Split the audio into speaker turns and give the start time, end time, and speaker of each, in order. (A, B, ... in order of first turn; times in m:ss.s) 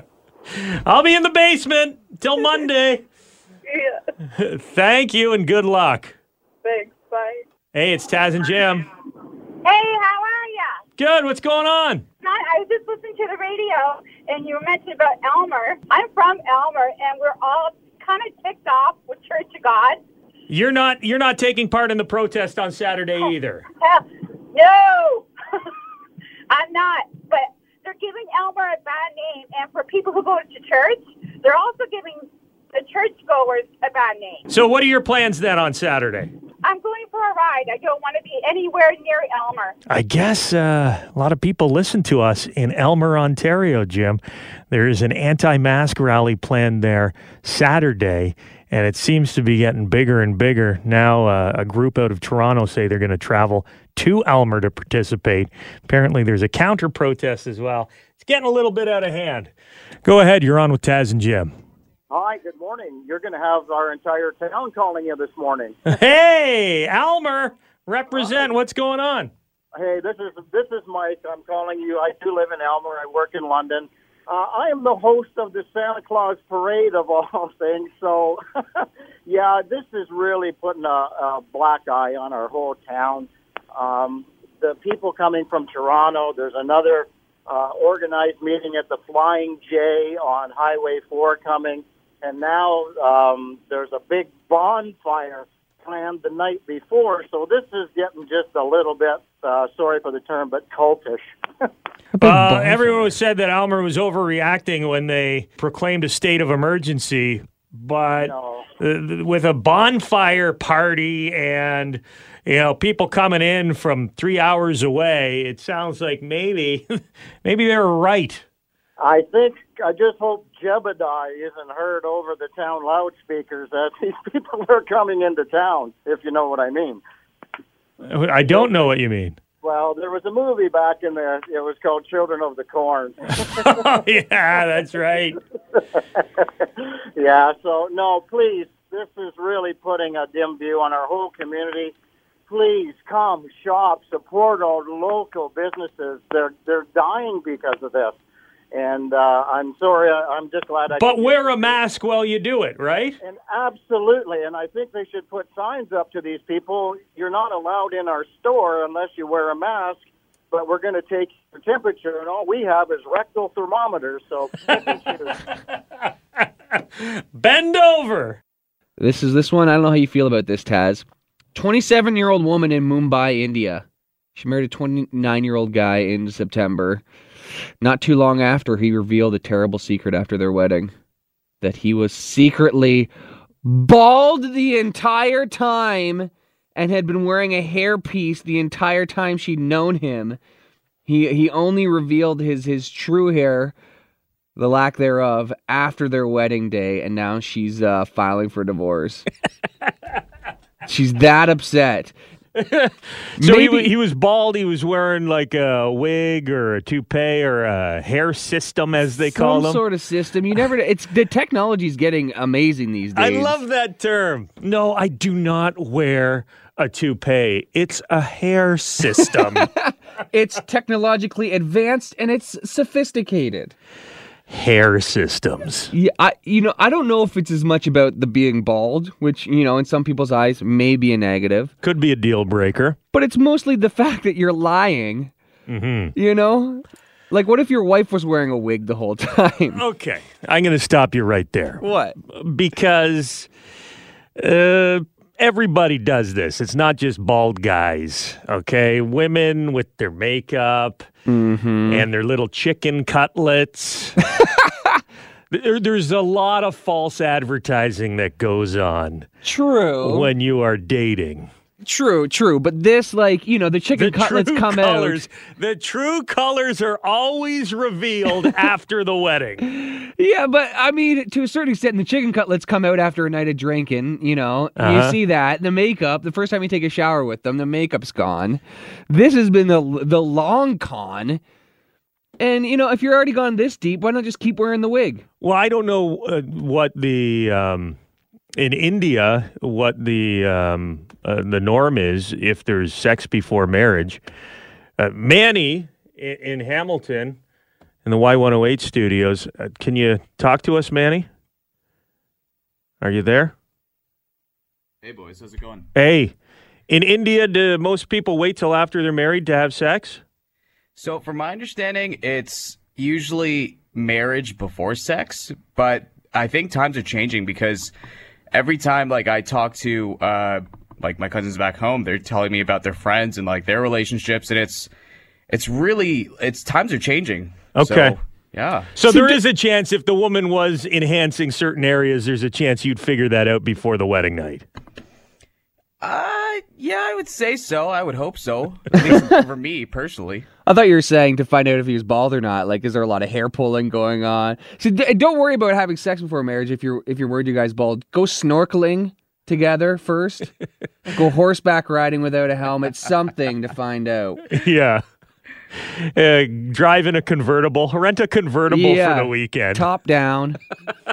0:00.6-0:03.0 A
0:03.7-0:04.0 B
0:04.3-0:06.2 A
0:06.6-0:07.4 B
0:07.7-0:08.8 A
0:09.6-0:10.8 B
0:11.0-0:12.0 A
0:12.2-0:20.0 B
0:20.5-0:23.6 A
0:23.8-0:25.7 B
0:26.5-0:34.4 B
0:34.5-0:36.3 A
0:36.6-0:39.7 B
0:39.9-0:59.5 A
1:00.0-1:01.5 A
1:02.1-1:05.8 C
1:05.8-1:09.3 A
1:09.8-1:41.6 C
1:42.1-1:43.1 D
1:42.2-1:58.4 A
1:48.2-1:48.6 C
1:59.0-2:07.0 C
2:08.0-2:09.4 A
2:09.6-2:13.4 C
2:13.4-2:15.4 A
2:15.8-2:21.9 C
2:22.5-2:28.2 C
2:28.7-2:31.7 C
2:31.0-2:33.2 A
2:33.2-2:45.4 C
2:47.0-2:48.4 A
2:49.0-2:53.8 D
2:54.4-2:57.0 D
2:57.8-3:00.9 D
3:01.6-3:03.1 D
3:03.6-3:10.4 D
3:11.0-3:13.7 D
3:14.6-3:19.2 D
3:20.8-3:22.1 D
3:22.6-3:29.8 A
3:23.4-3:23.9 D
3:29.3-3:33.6 D
3:33.1-3:39.7 A
3:39.1-3:43.7 D
3:44.5-3:45.9 A
3:45.9-3:51.7 D
3:51.8-3:53.0 A
3:53.1-3:55.3 D
3:55.7-3:56.1 A
3:56.1-3:59.8 D
3:59.7-4:03.5 A
4:01.8-4:02.2 D
4:04.4-4:11.1 A
4:11.3-4:12.1 D
4:11.9-4:14.2 A
4:15.5-4:19.3 A
4:19.4-4:20.3 D
4:20.0-4:21.5 A
4:21.8-4:25.2 D
4:23.9-4:29.6 A
4:29.7-4:41.4 D
4:34.8-4:35.2 A
4:42.4-4:45.2 D
4:45.4-4:48.0 A
4:48.6-4:54.2 A
4:55.0-4:57.4 A
4:58.0-5:01.3 A
5:03.0-5:03.5 A
5:05.0-5:05.9 E
5:05.9-5:06.3 A
5:06.9-5:10.2 A
5:11.0-5:17.9 E
5:18.5-5:24.9 E
5:25.5-5:28.9 E
5:27.7-5:28.2 A
5:28.9-5:34.6 A
5:29.1-5:29.4 D
5:36.0-5:40.5 E
5:38.9-5:39.4 D
5:40.6-5:50.5 D
5:51.1-5:54.4 D
5:54.5-5:55.0 A
5:55.9-5:59.8 A
5:58.7-6:00.6 D